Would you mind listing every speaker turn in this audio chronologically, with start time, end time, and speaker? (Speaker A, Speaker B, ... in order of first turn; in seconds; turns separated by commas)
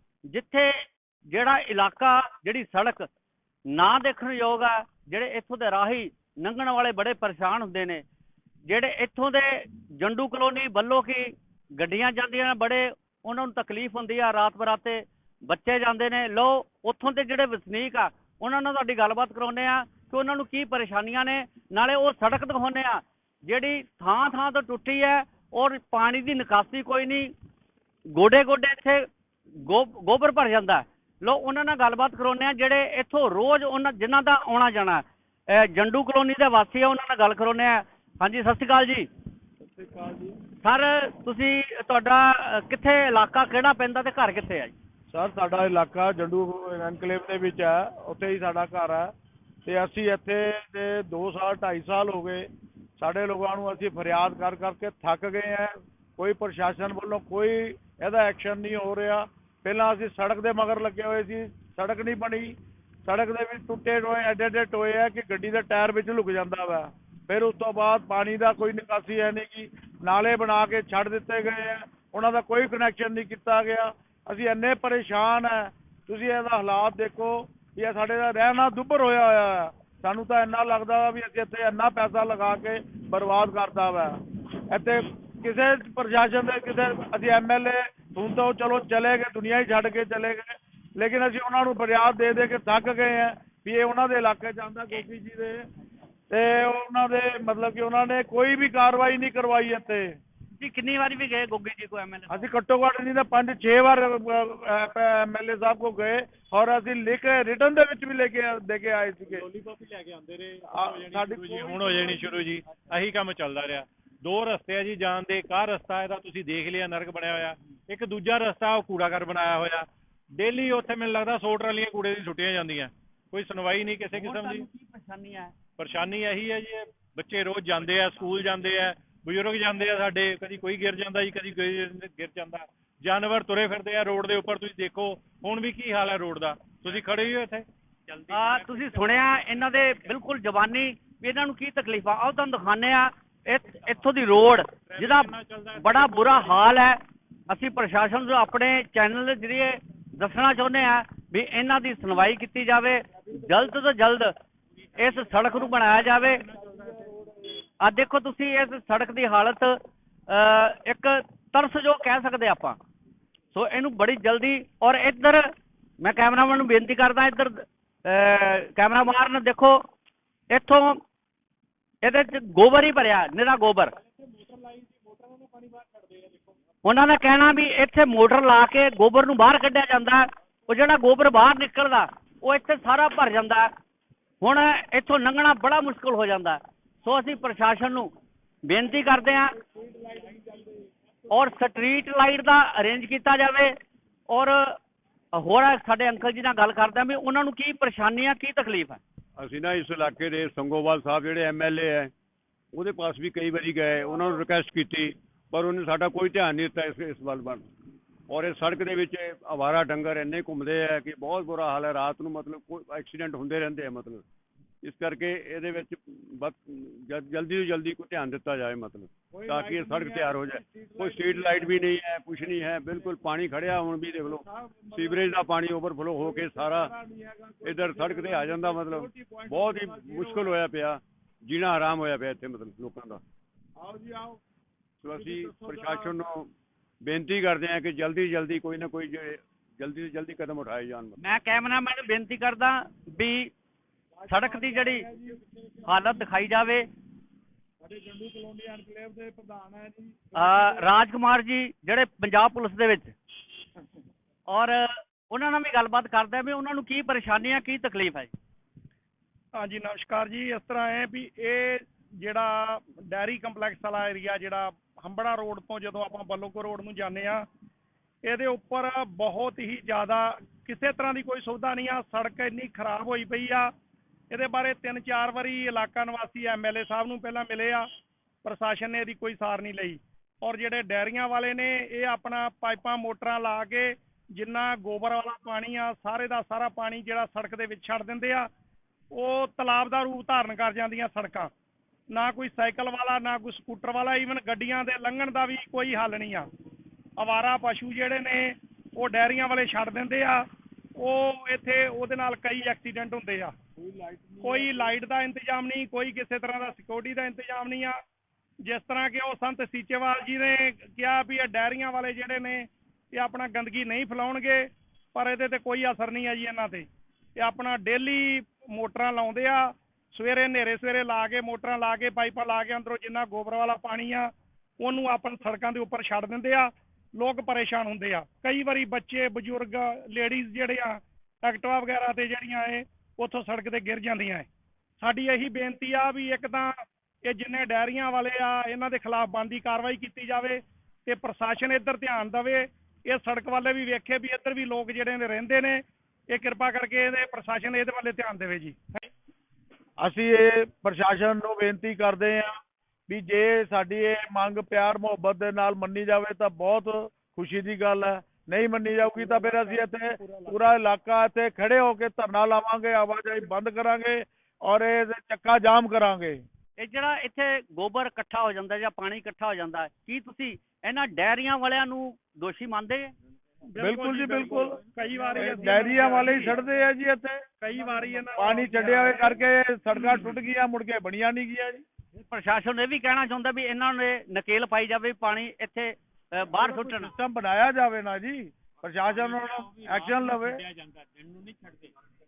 Speaker A: 0.3-3.1, Speaker A: 3.7-8.0, Speaker A: 8.7-27.3, Speaker A: 28.1-29.1, Speaker A: 29.6-39.1, Speaker B: 39.6-40.4, Speaker A: 40.6-44.7, Speaker B: 45.1-49.1, Speaker B: 49.6-52.5, Speaker B: 53.0-84.2, Speaker B: 84.7-95.7, Speaker B: 96.3-100.2, Speaker A: 100.6-102.5, Speaker B: 102.3-109.5, Speaker C: 109.3-124.6, Speaker B: 110.6-112.4, Speaker A: 124.1-125.5, Speaker C: 125.8-139.4, Speaker A: 138.3-154.3, Speaker C: 144.9-146.6, Speaker A: 154.9-156.4, Speaker A: 157.8-159.8, Speaker A: 160.3-162.8, Speaker A: 163.5-165.5, Speaker A: 166.0-169.8, Speaker A: 170.5-171.0, Speaker A: 172.0-173.9, Speaker D: 174.3-176.3, Speaker A: 176.8-183.7, Speaker A: 184.4-188.1, Speaker A: 188.6-189.6, Speaker A: 191.3-193.7, Speaker A: 194.3-194.8, Speaker A: 195.3-199.0, Speaker E: 199.4-202.1, Speaker E: 202.7-207.6, Speaker E: 208.3-214.2, Speaker E: 214.8-226.9, Speaker B: 219.3-221.8, Speaker B: 224.3-225.4, Speaker B: 226.2-230.6, Speaker E: 227.6-233.2, Speaker B: 233.8-234.4, Speaker E: 235.0-236.5, Speaker B: 235.1-236.1, Speaker E: 237.0-241.2, Speaker A: 241.2-243.5, Speaker B: 244.2-245.9, Speaker A: 244.3-245.1, Speaker A: 245.8-246.9, Speaker B: 247.8-250.9, Speaker A: 250.3-253.1, Speaker A: 254.5-258.3, Speaker D: 259.6-267.4, Speaker D: 268.2-273.7, Speaker D: 274.3-277.9, Speaker D: 278.4-288.5, Speaker D: 289.1-291.5, Speaker D: 292.1-296.5, Speaker D: 297.2-303.5, Speaker B: 303.8-304.9, Speaker D: 304.4-308.0, Speaker D: 308.6-316.9, Speaker D: 317.4-334.5, Speaker D: 335.0-349.0, Speaker B: 350.0-366.4, Speaker D: 359.2-360.6, Speaker A: 366.8-373.1, Speaker D: 373.7-376.6, Speaker B: 373.8-374.8, Speaker B: 375.4-377.4, Speaker D: 377.6-379.4, Speaker B: 378.4-381.8, Speaker A: 382.2-387.1, Speaker B: 386.5-390.6, Speaker C: 389.1-391.9